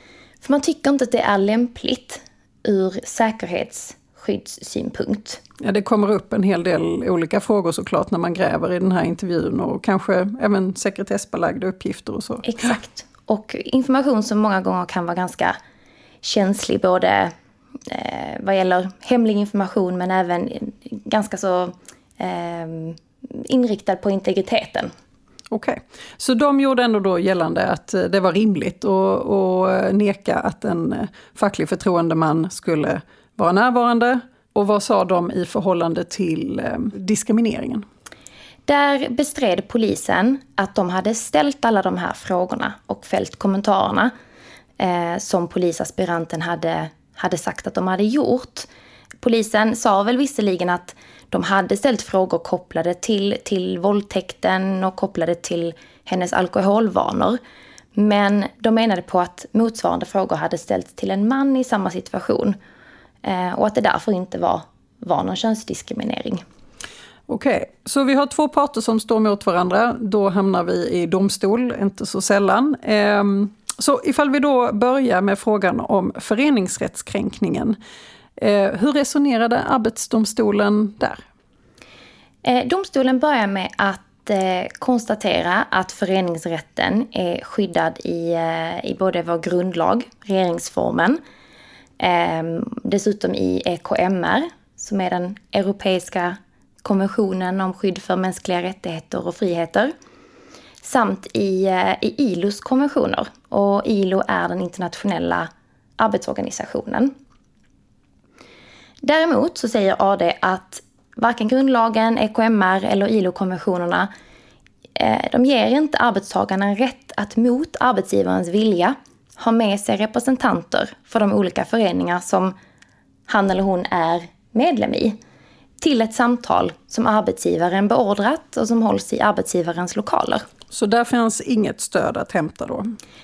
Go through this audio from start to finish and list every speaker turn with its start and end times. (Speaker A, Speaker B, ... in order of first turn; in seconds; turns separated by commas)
Speaker A: 0.4-5.4, Speaker B: 5.6-12.5, Speaker A: 12.4-15.6, Speaker A: 16.2-17.3, Speaker A: 17.9-24.9, Speaker B: 25.5-37.9, Speaker A: 38.7-44.1, Speaker A: 44.8-48.7, Speaker A: 49.2-57.4, Speaker A: 58.0-62.6, Speaker A: 63.2-66.4, Speaker B: 67.3-77.8, Speaker B: 78.4-81.2, Speaker A: 82.5-91.2, Speaker A: 92.0-99.9, Speaker A: 100.8-107.1, Speaker A: 109.0-114.1, Speaker A: 115.0-122.5, Speaker A: 123.3-125.2, Speaker A: 125.8-130.4, Speaker B: 130.7-132.9